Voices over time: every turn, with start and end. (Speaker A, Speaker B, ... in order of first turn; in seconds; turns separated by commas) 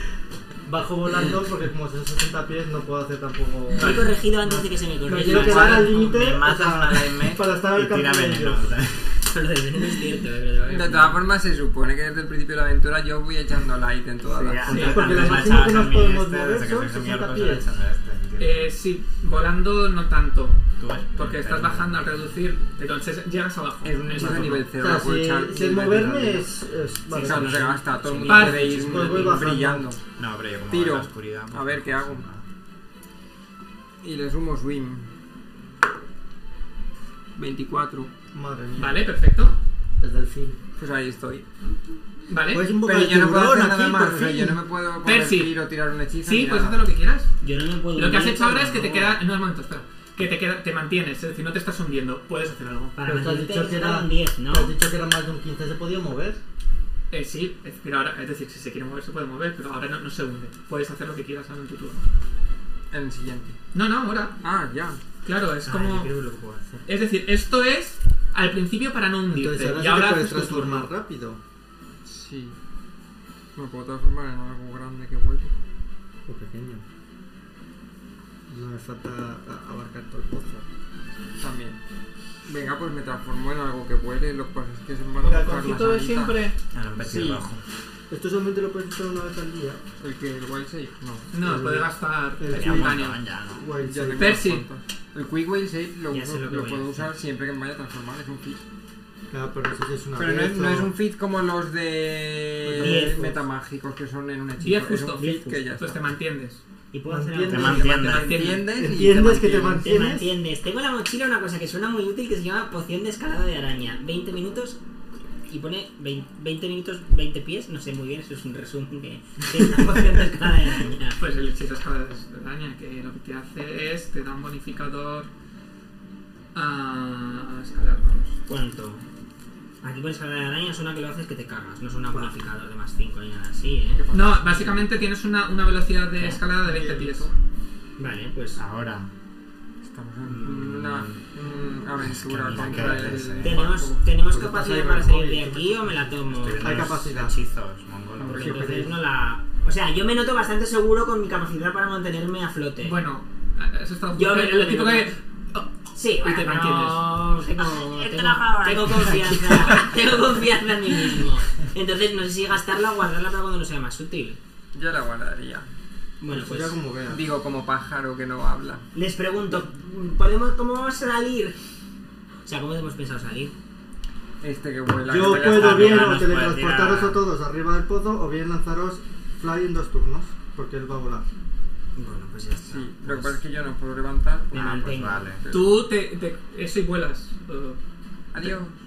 Speaker A: 0.6-8.7, Speaker B: 3.7-6.2, Speaker C: 3.8-4.1, Speaker D: 5.3-5.7, Speaker E: 5.3-9.3, Speaker B: 9.2-11.2, Speaker D: 10.7-15.6, Speaker E: 14.3-18.6, Speaker A: 14.7-17.7, Speaker C: 14.7-15.1, Speaker C: 18.4-20.6, Speaker E: 20.8-22.0, Speaker C: 21.1-24.7, Speaker D: 23.8-26.5, Speaker A: 24.8-27.8, Speaker B: 27.1-29.4, Speaker D: 27.1-30.0, Speaker C: 28.3-28.9, Speaker A: 28.6-29.9, Speaker E: 30.2-32.4, Speaker D: 30.7-32.2, Speaker D: 34.0-35.1, Speaker D: 37.4-38.1, Speaker A: 38.3-39.1, Speaker C: 38.8-39.6, Speaker A: 40.0-40.6, Speaker D: 40.8-41.5, Speaker C: 42.3-42.7, Speaker A: 42.5-44.6, Speaker D: 42.8-46.8, Speaker C: 45.0-45.5, Speaker C: 46.2-47.3, Speaker B: 47.4-49.2, Speaker C: 48.0-53.0, Speaker B: 53.0-54.8, Speaker A: 53.0-56.4, Speaker C: 57.1-62.1, Speaker D: 62.9-63.6, Speaker C: 63.7-64.4, Speaker D: 64.4-65.0, Speaker C: 65.2-66.1, Speaker B: 65.6-66.9, Speaker C: 66.9-70.9, Speaker A: 69.3-71.4, Speaker D: 72.0-72.6, Speaker D: 73.5-75.5, Speaker A: 76.3-76.8, Speaker A: 78.5-80.7, Speaker D: 81.4-81.8, Speaker D: 82.5-86.4, Speaker A: 85.2-85.7, Speaker C: 85.2-86.6, Speaker E: 86.7-87.6, Speaker D: 87.0-87.5, Speaker A: 88.1-89.8, Speaker D: 90.0-91.3, Speaker C: 91.3-93.2, Speaker A: 91.4-94.5, Speaker E: 92.5-93.6, Speaker D: 93.8-98.6, Speaker C: 94.2-94.7, Speaker B: 96.1-97.1, Speaker A: 99.3-100.9, Speaker D: 100.2-106.1, Speaker A: 102.6-103.4, Speaker B: 102.8-103.3, Speaker C: 104.6-106.6, Speaker B: 105.2-105.6, Speaker B: 106.9-107.9, Speaker A: 107.1-110.3, Speaker E: 107.5-108.5, Speaker D: 107.6-109.8, Speaker C: 108.0-108.7, Speaker B: 109.3-114.8, Speaker B: 115.5-121.2, Speaker C: 121.2-125.3, Speaker C: 126.5-128.4, Speaker B: 128.5-129.0, Speaker B: 129.8-134.0, Speaker D: 133.9-134.9, Speaker C: 134.1-137.3, Speaker A: 136.7-137.2, Speaker B: 138.0-138.6, Speaker E: 138.6-139.1, Speaker D: 139.8-144.1, Speaker E: 140.4-141.2, Speaker E: 142.0-143.7, Speaker B: 143.4-147.0, Speaker A: 144.2-147.4, Speaker E: 146.3-148.7, Speaker D: 148.2-148.8, Speaker B: 148.3-153.0, Speaker A: 148.3-149.0, Speaker C: 152.8-157.2, Speaker B: 154.1-155.1, Speaker B: 155.9-164.4, Speaker D: 164.7-165.7, Speaker B: 166.2-166.8, Speaker A: 166.3-167.2, Speaker D: 167.1-168.8, Speaker B: 168.9-171.6, Speaker B: 172.4-173.5, Speaker D: 174.4-176.3, Speaker A: 175.1-181.3, Speaker E: 175.1-177.2, Speaker B: 182.0-183.4, Speaker D: 182.7-185.8, Speaker B: 184.5-185.3, Speaker E: 184.5-185.4, Speaker C: 185.5-187.8, Speaker D: 188.3-188.8